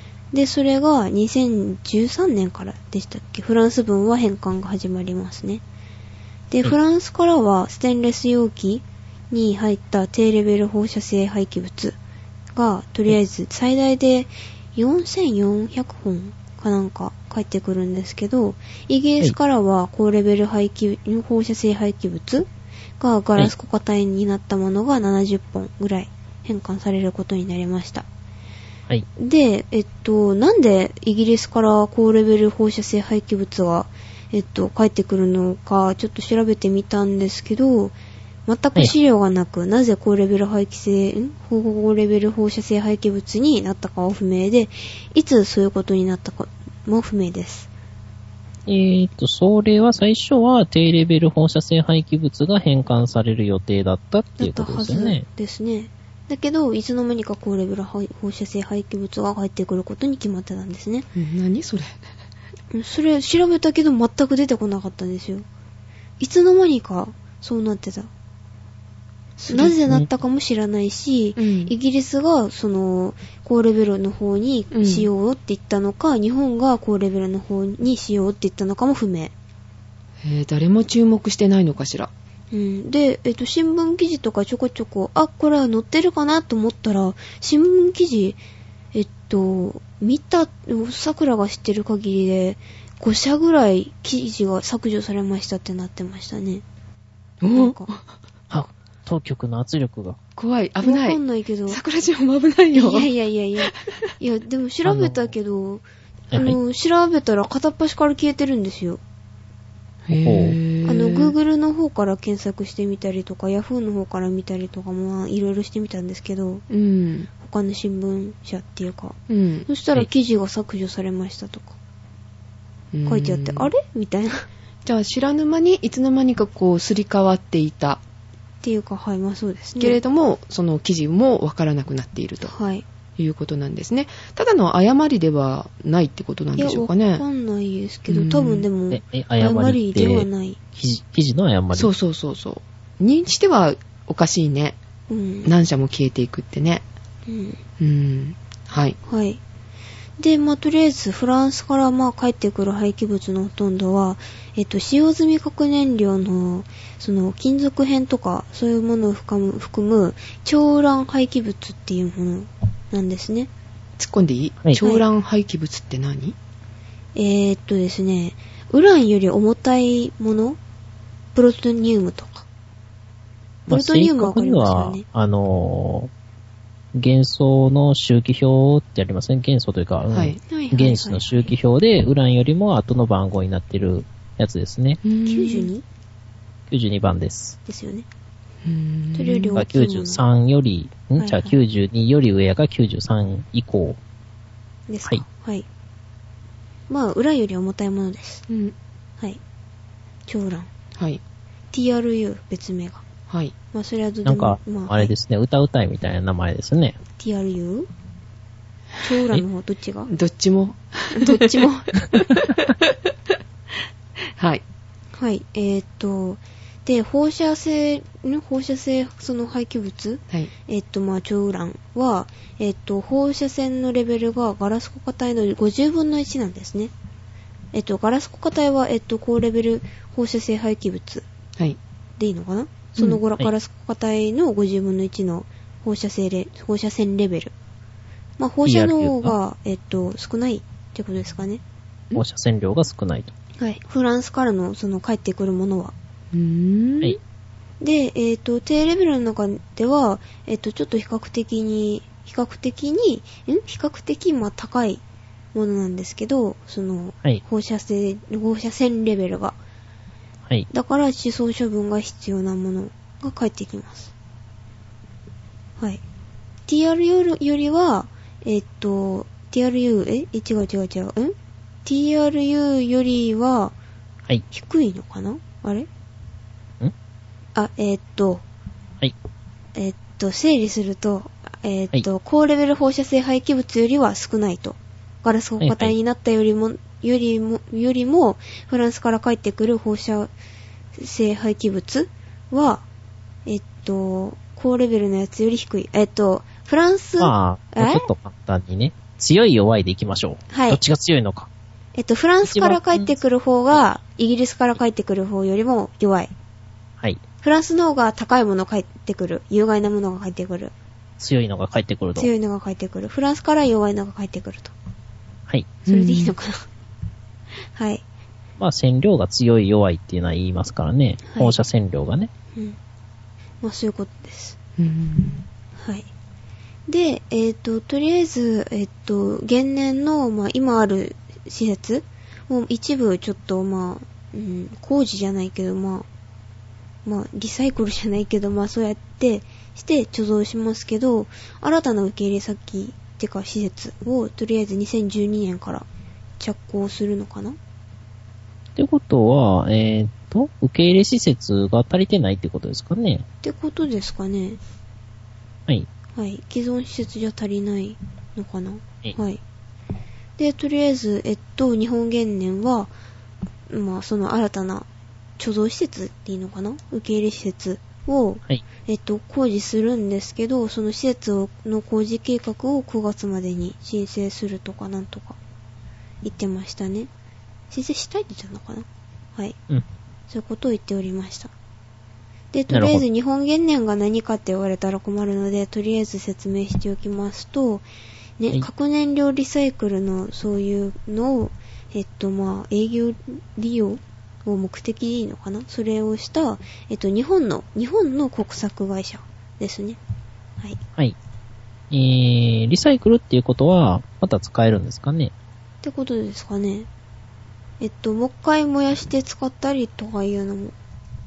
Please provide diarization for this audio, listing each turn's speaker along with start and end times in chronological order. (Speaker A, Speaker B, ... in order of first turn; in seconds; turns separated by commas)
Speaker A: 0.3-5.6, Speaker A: 6.5-12.0, Speaker A: 12.6-22.5, Speaker A: 23.0-28.1, Speaker A: 29.2-38.0, Speaker A: 38.5-47.7, Speaker B: 48.7-55.2, Speaker A: 54.4-61.1, Speaker C: 61.1-62.0, Speaker A: 62.7-65.5, Speaker A: 66.2-68.1, Speaker C: 69.4-69.8, Speaker A: 69.5-79.3, Speaker C: 71.4-71.7, Speaker C: 74.7-75.1, Speaker C: 80.2-82.1, Speaker A: 82.5-88.4, Speaker A: 88.9-96.6, Speaker C: 97.4-98.0, Speaker A: 97.5-97.9, Speaker B: 98.5-100.2, Speaker C: 100.4-103.1, Speaker A: 100.8-101.8, Speaker A: 102.7-109.0, Speaker B: 104.8-105.3, Speaker B: 106.3-106.6, Speaker C: 110.1-111.3, Speaker B: 110.2-110.6, Speaker A: 110.8-116.6, Speaker C: 116.7-117.3, Speaker A: 117.4-121.8, Speaker C: 119.3-119.7, Speaker C: 122.9-123.7, Speaker A: 123.1-124.5, Speaker C: 124.9-128.0, Speaker A: 128.6-130.0, Speaker C: 129.8-132.5, Speaker A: 132.4-132.8, Speaker C: 133.2-137.2, Speaker A: 136.6-140.6, Speaker C: 138.1-138.7, Speaker B: 138.9-141.9, Speaker C: 141.7-144.8, Speaker A: 145.1-145.5, Speaker C: 145.4-146.8, Speaker A: 147.3-147.6, Speaker C: 147.8-149.0, Speaker A: 149.1-149.4, Speaker A: 150.2-163.5, Speaker C: 164.0-166.3, Speaker A: 167.2-170.6, Speaker A: 171.3-172.5, Speaker B: 173.7-176.1, Speaker A: 173.7-175.1, Speaker B: 176.9-185.0, Speaker C: 180.1-180.4, Speaker A: 180.4-181.5, Speaker C: 185.0-185.7, Speaker A: 185.2-185.8, Speaker B: 186.7-187.6, Speaker A: 187.7-188.1, Speaker C: 188.7-189.6, Speaker A: 189.1-190.2, Speaker B: 189.6-194.0, Speaker A: 191.2-191.5, Speaker A: 194.9-195.7, Speaker A: 196.9-198.4, Speaker C: 198.5-198.7, Speaker A: 200.3-200.7, Speaker A: 201.7-203.1, Speaker A: 203.7-205.1, Speaker B: 204.3-207.0, Speaker A: 207.2-207.9, Speaker A: 209.0-210.1, Speaker C: 210.1-212.9, Speaker A: 211.1-212.0, Speaker C: 214.4-214.6, Speaker A: 215.2-226.9, Speaker A: 227.7-231.3, Speaker A: 232.2-237.5, Speaker A: 238.4-241.6, Speaker B: 238.7-239.4, Speaker B: 242.2-243.3, Speaker A: 243.6-245.9, Speaker C: 246.3-247.2, Speaker A: 247.8-255.0, Speaker A: 255.5-259.6, Speaker A: 260.7-264.1, Speaker A: 266.7-273.7, Speaker A: 274.5-275.9, Speaker A: 277.6-278.4, Speaker A: 279.8-290.3, Speaker B: 285.6-285.9, Speaker A: 290.9-292.9, Speaker A: 293.5-298.1, Speaker B: 297.2-301.5, Speaker A: 300.5-300.8, Speaker A: 301.9-306.3, Speaker B: 302.4-303.1, Speaker A: 307.4-310.7, Speaker B: 311.2-312.3, Speaker A: 312.1-314.7, Speaker C: 315.9-316.3, Speaker A: 315.9-316.7, Speaker A: 317.8-318.0, Speaker B: 318.6-322.3, Speaker A: 321.3-321.6, Speaker A: 323.6-324.6, Speaker C: 324.8-325.4, Speaker A: 325.8-326.1, Speaker A: 326.9-336.1, Speaker A: 337.1-345.9, Speaker A: 346.4-347.6, Speaker B: 348.8-353.2, Speaker A: 353.4-354.6, Speaker A: 356.2-359.4, Speaker A: 360.4-362.9, Speaker A: 363.7-364.9, Speaker A: 365.4-375.4, Speaker A: 376.2-377.1, Speaker A: 377.7-379.6, Speaker A: 380.3-381.5, Speaker A: 382.5-387.9, Speaker B: 382.7-383.0, Speaker A: 388.4-400.0, Speaker B: 401.9-405.3, Speaker A: 405.8-406.9, Speaker A: 407.8-410.8